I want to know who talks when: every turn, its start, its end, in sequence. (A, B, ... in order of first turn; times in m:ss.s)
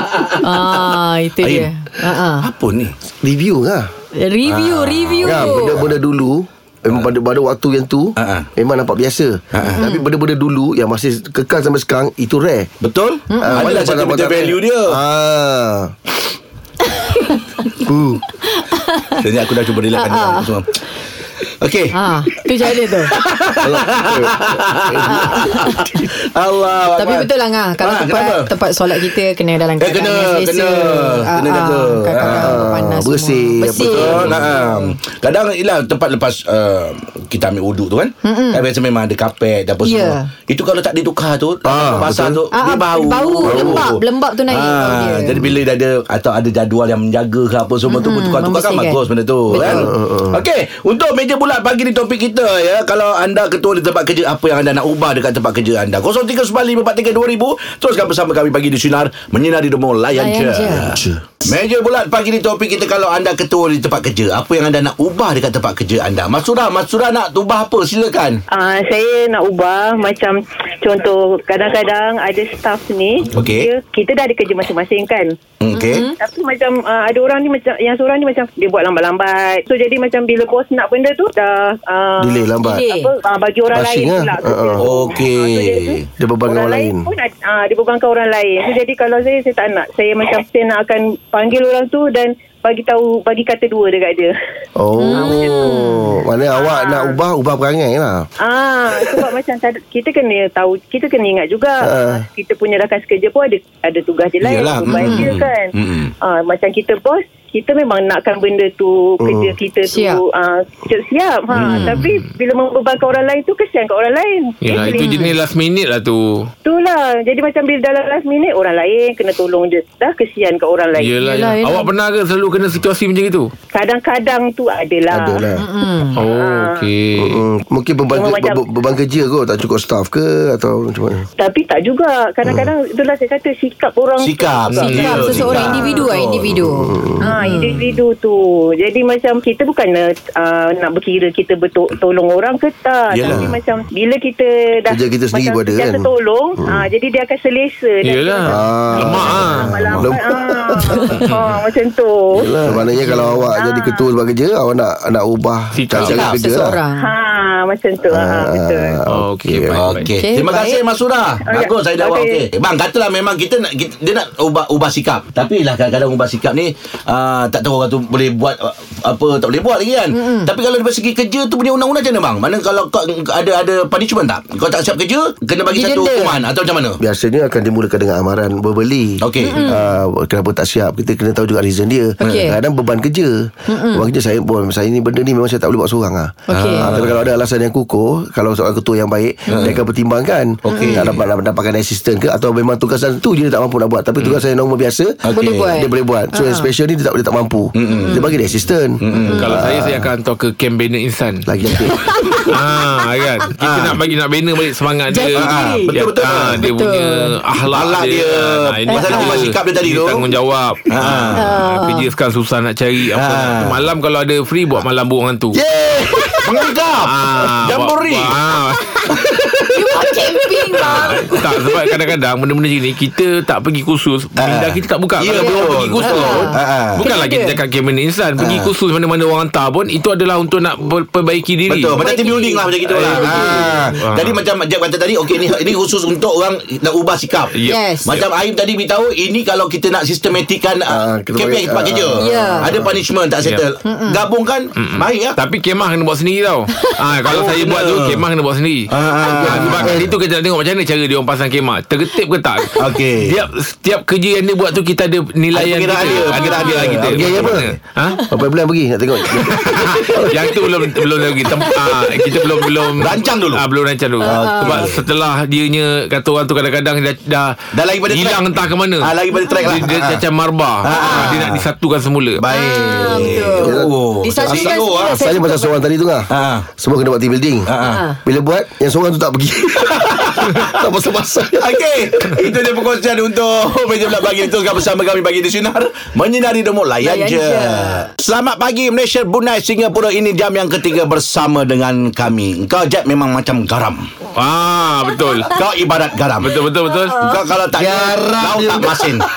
0:00.4-0:02.5 A
0:02.4-0:02.9 B
0:03.2-0:03.9 C
0:04.1-0:05.8 A
0:04.5-0:04.9 B
0:05.2-0:12.7 C
0:08.2-0:08.4 B
0:09.8-0:10.1 A
0:12.8-0:14.9 B
0:13.3-0:13.7 A
0:13.4-0:15.9 C
0:17.1-0:17.4 A
0:17.8-0:18.2 C
0:18.5-0:19.2 A
0:19.2-0:20.7 B
0:19.9-0:20.5 A
0:21.6-0:21.9 B
0:21.9-0:23.1 A
0:23.1-0:24.9 B
0:23.6-0:25.4 C
0:25.1-0:26.0 A
0:26.4-0:27.2 B
0:27.0-0:34.9 A
0:27.8-0:28.5 B
0:29.8-0:32.5 B
0:32.2-0:34.4 C
0:33.9-0:43.9 B
0:38.2-0:38.7 A
0:39.8-0:40.3 A
0:41.6-0:42.4 C
0:42.5-0:45.5 A
0:43.4-0:43.8 C
0:44.5-1:00.8 B
0:47.9-0:49.9 A
0:49.5-0:50.4 C
1:00.1-1:00.9 A
1:00.8-1:01.2 C
1:01.4-1:08.4 B
1:08.5-1:15.3 D
1:13.4-1:13.6 B
1:15.6-1:16.0 B
1:15.7-1:16.2 A
1:16.1-1:34.3 D
1:22.2-1:22.8 C
1:22.6-1:23.1 A
1:23.7-1:24.9 C
1:24.8-1:26.0 B
1:26.2-1:27.0 C
1:34.8-1:38.3 C
1:35.0-1:36.2 A
1:35.1-1:35.7 D
1:36.5-1:37.2 D
1:38.4-1:55.3 D
1:41.8-1:42.2 C
1:44.5-1:46.1 B
1:44.9-1:45.3 A
1:49.2-1:49.6 C
1:49.9-1:50.2 A
1:51.5-1:51.9 B
1:54.6-1:56.5 E
1:54.8-1:55.3 A
1:56.6-2:01.2 D
2:00.9-2:03.5 E
2:01.2-2:01.9 A
2:03.7-2:05.4 D
2:05.1-2:05.6 C
2:05.6-2:06.2 A
2:06.2-2:07.4 E
2:06.2-2:06.8 D
2:07.2-2:11.3 C
2:08.1-2:08.6 D
2:11.4-2:16.0 D
2:12.4-2:12.7 C
2:14.2-2:16.5 B
2:14.7-2:17.8 A
2:16.7-2:17.4 C
2:17.2-2:32.5 D
2:23.2-2:23.6 C
2:24.9-2:26.1 C
2:28.0-2:29.7 E
2:28.4-2:31.0 C
2:30.9-2:31.2 A
2:31.2-2:31.5 E
2:32.4-2:36.8 C
2:33.0-2:33.3 A
2:33.5-2:34.1 D
2:35.7-2:36.2 E
2:36.0-2:36.4 B
2:36.0-2:37.1 A
2:37.0-2:38.9 D
2:38.1-2:40.0 C
2:39.1-2:40.1 E
2:39.7-2:57.0 B
2:40.2-2:40.8 A
2:41.5-2:42.4 D
2:50.1-2:50.5 A
2:55.7-2:56.4 A
2:57.0-3:20.1 C
2:59.2-2:59.8 B
2:59.4-2:59.9 A
3:02.2-3:02.6 A
3:03.7-3:04.1 A
3:06.5-3:06.9 A
3:06.5-3:07.2 B
3:09.5-3:09.8 A
3:10.6-3:11.0 B
3:10.7-3:11.1 A
3:15.2-3:15.7 B
3:15.3-3:16.7 A
3:17.7-3:18.1 B
3:17.9-3:18.3 A
3:19.0-3:19.5 B
3:19.3-3:19.6 A
3:19.3-3:21.5 E
3:21.4-3:22.1 C
3:21.9-3:22.5 A
3:22.5-3:35.6 E
3:23.6-3:24.0 B
3:25.1-3:25.9 A
3:25.3-3:26.6 B
3:26.6-3:27.4 A
3:27.7-3:30.2 B
3:28.9-3:29.4 A
3:30.9-3:31.4 B
3:31.4-3:32.1 A
3:33.1-3:33.8 B
3:35.5-3:36.7 C
3:36.4-3:37.1 B
3:37.0-3:38.8 E
3:37.6-3:38.3 B
3:39.7-3:41.4 A
3:40.8-3:52.1 E
3:44.4-3:47.0 B
3:45.3-3:47.6 A
3:48.4-3:48.7 B
3:51.7-3:57.5 B
3:52.0-3:53.9 A
3:52.8-3:54.4 E
3:57.5-3:57.8 E
3:57.7-3:58.2 A
3:58.0-4:05.4 B
4:00.9-4:02.9 C
4:02.2-4:02.7 A
4:03.8-4:04.2 A
4:04.8-4:18.2 E
4:07.3-4:08.1 B
4:08.9-4:10.0 B
4:09.4-4:10.2 C
4:12.8-4:13.3 B
4:15.5-4:17.6 B
4:16.1-4:17.0 A
4:17.0-4:17.7 C
4:18.3-4:20.5 C
4:19.5-4:27.5 E
4:21.5-4:22.7 A
4:23.0-4:23.6 B
4:24.2-4:24.9 A
4:24.3-4:25.0 B
4:27.7-4:28.4 B
4:28.1-4:29.1 E
4:29.0-4:30.2 B
4:29.3-4:29.9 A
4:29.6-4:32.4 E
4:30.8-4:31.6 B
4:30.9-4:31.4 A
4:32.4-4:35.1 B
4:32.5-4:35.8 A
4:33.2-4:33.9 C
4:34.4-4:37.7 C
4:36.3-4:36.7 B
4:37.7-4:38.0 B
4:37.8-4:38.2 A
4:38.2-4:41.7 C
4:41.6-4:54.0 B
4:47.0-4:48.1 A
4:54.3-4:55.5 E
4:55.5-4:56.5 B
4:56.4-4:57.2 E
4:57.0-4:57.4 A
4:57.2-4:59.2 B
4:57.8-4:59.0 C